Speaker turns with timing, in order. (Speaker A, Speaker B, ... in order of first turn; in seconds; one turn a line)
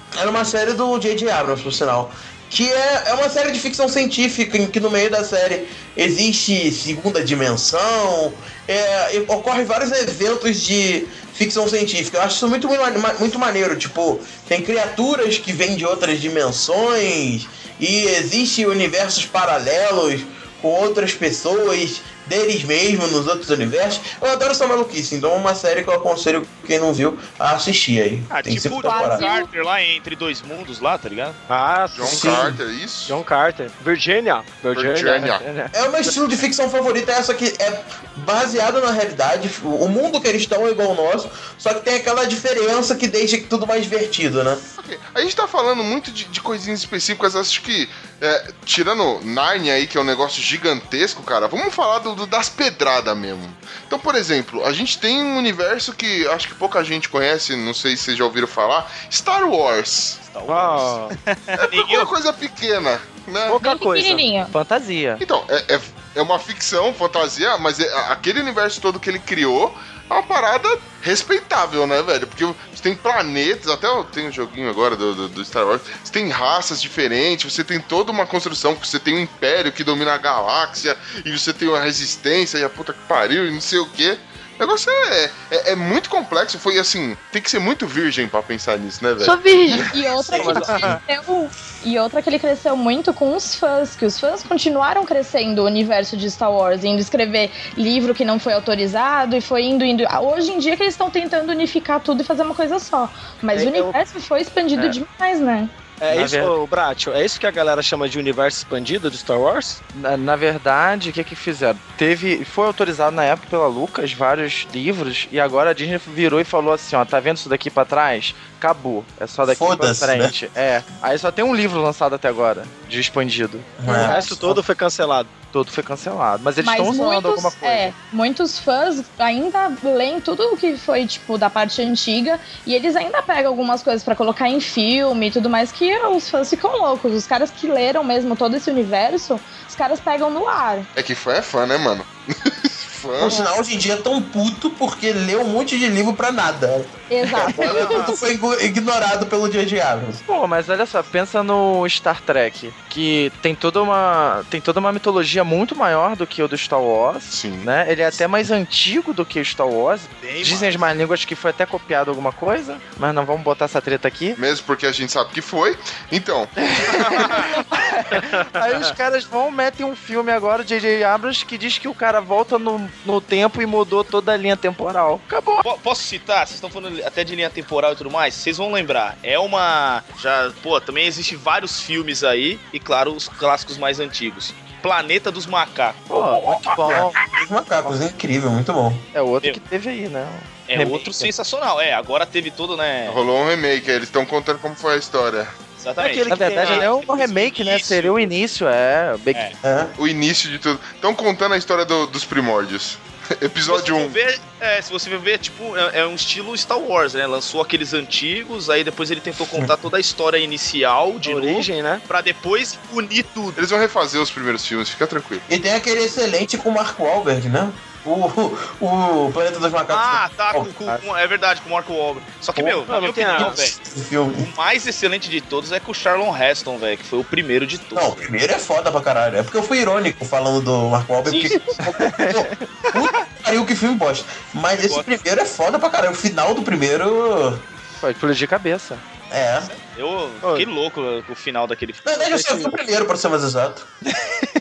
Speaker A: 0.1-29.2
Speaker B: 28.3-31.4
Speaker C: 28.8-29.5
Speaker D: 31.5-32.5
Speaker E: 31.9-33.2
Speaker A: 32.0-32.6
Speaker D: 33.0-35.3
Speaker E: 34.7-35.4
Speaker F: 35.2-36.1
Speaker A: 35.7-44.6
Speaker E: 44.7-60.2
Speaker B: 60.2-62.1
Speaker D: 60.5-61.1
Speaker E: 61.5-63.6
Speaker D: 63.5-64.3
Speaker C: 63.6-64.5
Speaker F: 64.5-65.2
Speaker E: 65.2-91.0
Speaker C: 89.2-105.7
Speaker D: 103.5-104.0
Speaker D: 106.0-109.8
Speaker F: 106.1-106.5
Speaker F: 109.9-124.5
Speaker A: 119.4-120.3
Speaker A: 123.8-124.6
Speaker C: 123.9-124.1
Speaker D: 123.9-125.3
Speaker F: 125.5-127.9
Speaker C: 126.6-140.9
Speaker E: 140.9-143.4
Speaker A: 143.2-150.2
Speaker C: 147.1-148.2
Speaker F: 150.3-164.4
Speaker E: 157.3-157.7
Speaker B: 160.2-160.8
Speaker E: 164.3-166.5
Speaker F: 166.6-175.6
Speaker B: 167.0-167.5
Speaker B: 175.6-186.9
Speaker F: 186.1-187.2
Speaker A: 186.8-189.1
Speaker F: 189.1-191.3
Speaker B: 190.7-193.2
Speaker E: 193.1-195.6
Speaker B: 195.8-198.3
Speaker D: 196.0-196.9
Speaker F: 196.3-199.5
Speaker A: 199.6-199.9
Speaker E: 200.0-204.2
Speaker B: 203.7-213.6
Speaker A: 209.4-209.8
Speaker D: 211.2-212.0
Speaker E: 213.6-215.4
Speaker A: 215.5-220.7
Speaker B: 219.9-223.8
Speaker A: 222.5-224.5
Speaker D: 222.9-223.6
Speaker B: 224.3-228.3
Speaker A: 227.9-237.6
Speaker B: 231.2-231.8
Speaker F: 231.9-232.7
Speaker B: 234.8-235.1
Speaker F: 238.0-239.0
Speaker A: 239.3-239.7
Speaker B: 239.7-242.7
Speaker D: 240.4-240.7
Speaker A: 242.0-243.9